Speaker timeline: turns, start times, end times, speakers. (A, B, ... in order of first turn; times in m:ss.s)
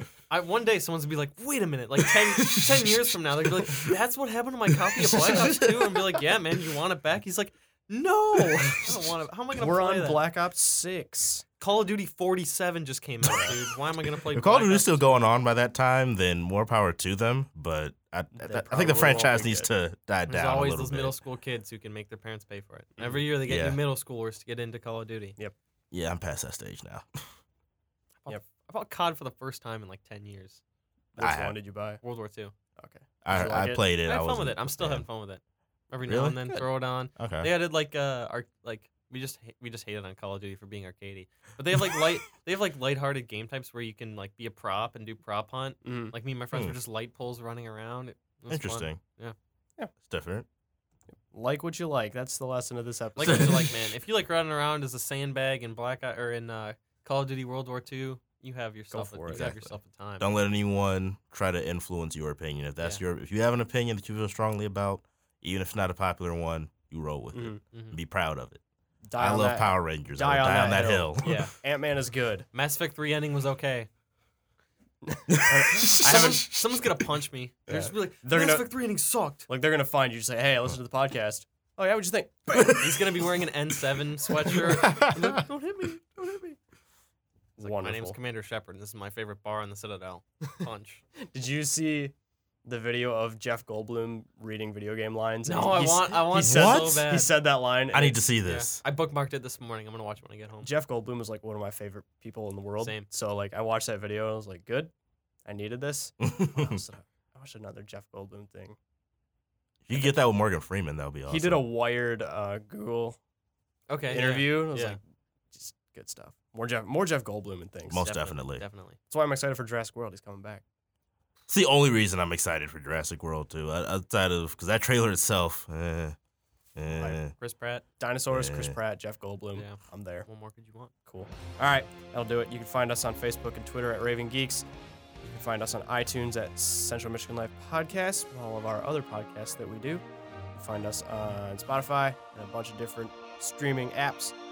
0:00.3-0:10.2 A
0:02.4-0:02.9 B
0:03.7-0:03.9 B
0:04.7-0:06.2 B
0:09.5-0:11.4 C
0:11.6-0:15.2 A
0:13.2-0:13.5 C
0:14.2-0:21.2 B
0:18.4-0:19.7 C
0:20.3-0:25.4 A
0:23.5-0:23.8 B
0:25.9-0:27.2 B
0:28.2-0:30.6 A
0:31.2-0:31.5 B
0:31.2-0:32.0 C
0:32.0-0:32.5 A
0:32.8-0:33.8 C
0:33.2-0:35.0 B
0:34.0-0:49.3 A
0:36.1-0:36.4 B
0:37.1-0:37.5 B
0:45.8-0:46.1 C
0:48.5-0:49.0 B
0:50.0-0:50.4 B
0:51.3-0:53.7 C
0:53.2-1:00.3 A
0:53.2-0:53.7 B
0:58.9-0:59.5 C
0:59.3-1:08.6 B
1:07.3-1:07.6 C
1:07.7-1:08.0 A
1:09.1-1:12.5 C
1:09.2-1:11.4 B
1:11.2-1:11.5 A
1:12.5-1:13.9 A
1:15.0-1:16.5 C
1:15.3-1:17.1 B
1:16.0-1:19.5 A
1:17.7-1:18.7 C
1:19.5-1:23.0 C
1:22.5-1:23.0 B
1:22.6-1:26.6 A
1:24.4-1:25.4 B
1:27.6-1:28.2 C
1:27.6-1:31.0 A
1:31.2-1:32.1 C
1:32.6-1:38.2 C
1:35.4-1:37.3 A
1:36.4-1:37.0 B
1:37.9-1:38.8 B
1:38.4-1:40.7 A
1:40.6-1:44.9 C
1:42.8-1:43.1 A
1:45.4-1:48.8 C
1:46.2-1:46.8 B
1:49.8-1:51.6 B
1:51.3-1:53.2 C
1:53.9-1:55.0 A
1:54.1-1:55.0 C
1:55.5-1:58.1 C
1:57.9-1:58.6 B
1:58.0-1:59.0 A
1:59.1-2:00.6 C
2:01.5-2:06.2 B
2:06.7-2:07.3 B
2:07.3-2:07.8 A
2:08.0-2:10.2 C
2:08.3-2:08.8 B
2:09.5-2:10.9 A
2:11.1-2:14.6 C
2:15.2-2:24.3 C